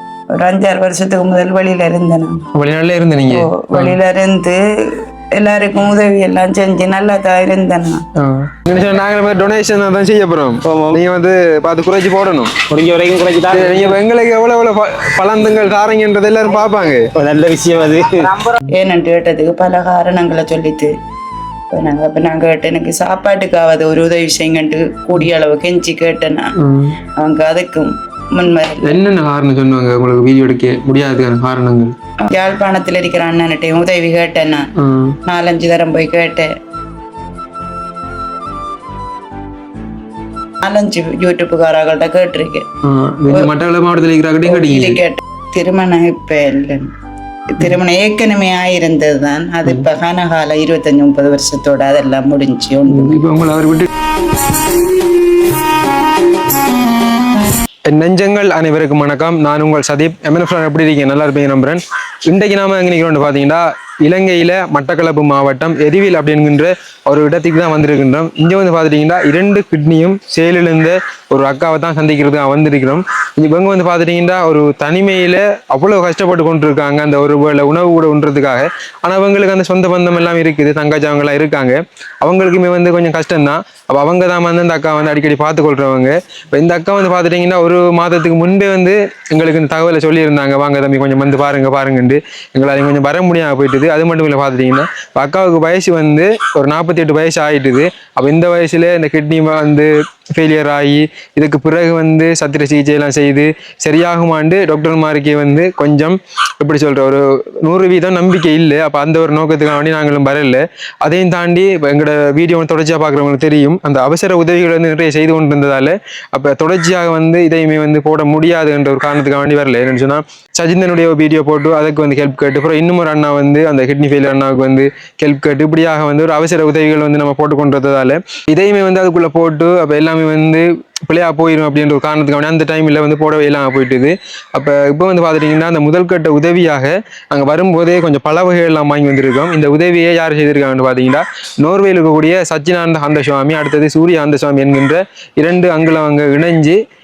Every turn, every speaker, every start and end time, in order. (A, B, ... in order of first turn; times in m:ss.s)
0:00.3-0:02.4 A
0:02.5-0:04.0 B
0:03.3-0:08.0 A
0:08.2-0:12.6 B
0:10.6-0:11.0 C
0:12.7-0:14.0 C
0:13.5-0:17.1 B
0:17.2-0:18.6 C
0:18.7-0:20.9 A
0:21.7-0:26.6 A
0:26.6-0:27.0 B
0:27.2-0:29.0 A
0:28.8-0:32.0 B
0:32.2-0:34.7 A
0:34.8-0:35.2 B
0:35.2-0:36.5 A
0:40.6-0:42.7 A
0:42.8-0:45.0 B
0:44.5-0:46.9 A
0:47.5-0:53.3 A
0:52.9-0:53.9 B
0:57.9-2:26.8 B